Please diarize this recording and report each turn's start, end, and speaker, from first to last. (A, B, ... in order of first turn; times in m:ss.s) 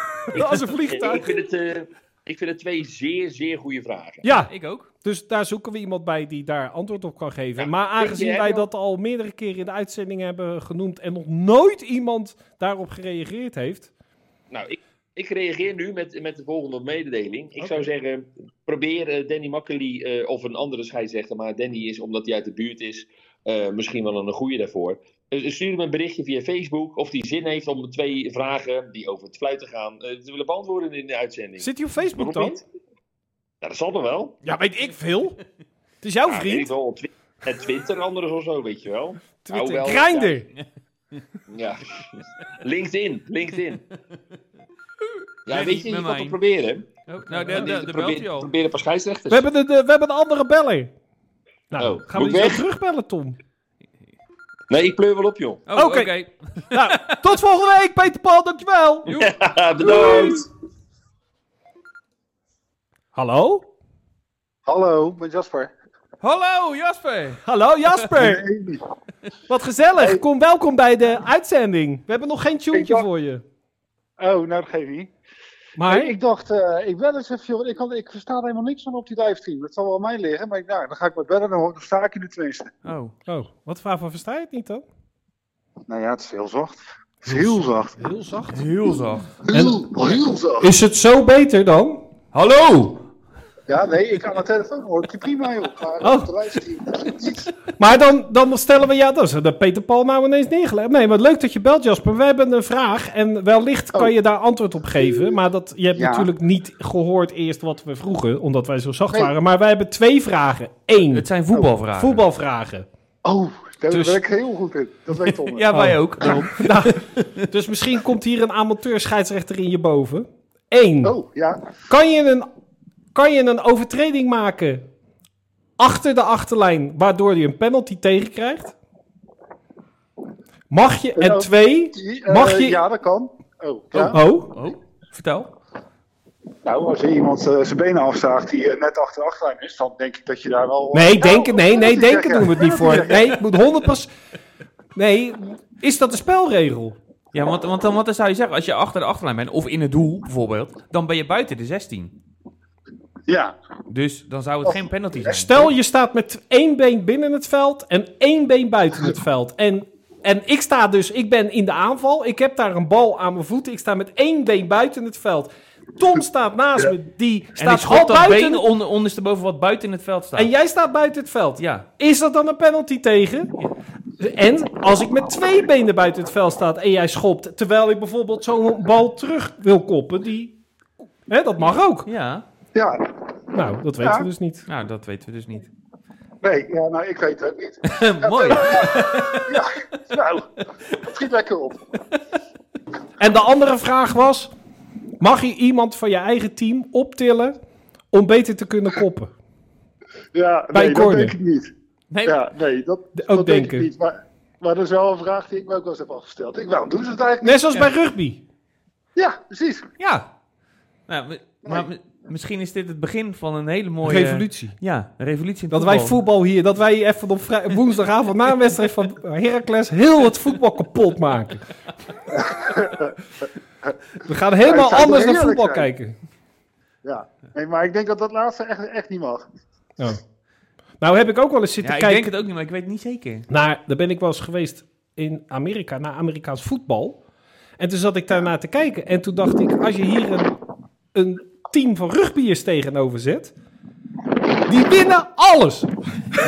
0:00.3-0:01.4 A
0:00.3-0:04.2 B
0:04.2-0:13.9 A
0:04.3-0:04.9 C
0:07.6-0:08.7 B
0:14.5-0:32.6 B
0:31.6-0:32.6 A
0:33.6-0:34.4 B
0:34.4-0:35.4 A
0:36.0-0:36.7 A
0:36.2-0:40.5 B
0:39.4-0:40.5 A
0:41.5-0:43.8 B
0:45.4-0:46.4 C
0:45.4-0:49.5 B
0:47.1-0:48.5 C
0:47.3-0:47.7 A
0:49.3-0:50.9 A
0:51.7-0:53.4 A
0:51.8-0:52.6 B
0:54.7-0:55.6 B
0:55.7-0:57.2 C
0:55.7-0:56.1 A
0:56.7-0:59.2 A
0:59.0-1:00.5 B
0:59.8-1:00.4 A
0:59.9-1:00.4 D
1:03.1-1:03.7 A
1:04.6-1:05.7 D
1:06.2-1:07.4 C
1:07.4-1:08.4 A
1:08.1-1:08.8 D
1:09.5-1:13.4 A
1:12.7-1:13.0 D
1:14.2-1:15.1 D
1:15.8-1:16.1 A
1:15.8-1:22.7 D
1:22.8-1:23.1 C
1:23.3-1:24.8 A
1:25.9-1:28.0 D
1:27.2-1:28.7 A
1:28.5-1:29.3 C
1:29.4-1:30.7 D
1:29.5-1:29.9 A
1:30.6-1:32.0 A
1:32.3-1:33.1 C
1:33.7-1:37.5 D
1:36.0-1:36.3 A
1:37.8-1:51.2 A
1:45.0-1:45.4 D
1:45.9-1:46.3 D
1:51.1-1:52.2 C
1:52.0-1:52.9 A
1:53.2-1:55.7 D
1:53.9-1:54.2 A
1:55.5-1:57.3 C
1:55.7-2:01.1 A
2:01.0-2:01.7 D
2:01.9-2:02.5 A
2:03.1-2:04.9 A
2:05.8-2:08.8 A
2:10.7-2:12.8 A
2:11.2-2:14.2 D
2:14.0-2:15.5 C
2:14.0-2:14.5 A
2:16.6-2:23.4 D
2:20.9-2:24.1 A
2:25.0-2:27.0 A
2:27.3-2:32.1 C
2:33.3-2:33.5 D
2:33.9-2:35.7 C
2:35.3-2:48.6 A
2:47.6-2:50.5 C
2:50.4-2:53.5 A
2:51.6-2:51.8 C
2:54.2-3:00.6 A
3:01.3-3:02.1 A
3:02.0-3:02.4 C
3:02.7-3:03.3 D
3:03.5-3:04.7 A
3:04.0-3:04.3 D
3:04.7-3:05.7 C
3:06.4-3:11.8 D
3:07.8-3:09.6 C
3:13.2-3:14.5 A
3:15.2-3:17.6 A
3:18.1-3:19.3 A
3:20.3-3:21.7 D
3:20.7-3:21.3 A
3:22.1-3:22.4 C
3:22.2-3:27.6 D
3:23.2-3:23.9 A
3:27.4-3:28.4 A
3:29.2-3:29.9 D
3:30.0-3:30.3 C
3:31.1-3:36.2 C
3:34.0-3:34.8 A
3:35.7-3:41.6 A
3:42.3-3:43.1 D
3:44.2-3:46.2 A
3:44.6-3:45.9 D
3:47.0-3:49.4 D
3:51.0-3:52.3 A
3:51.8-3:53.5 C
3:53.5-3:57.2 A
3:57.8-4:00.5 A
4:01.1-4:03.5 A
4:04.6-4:06.0 A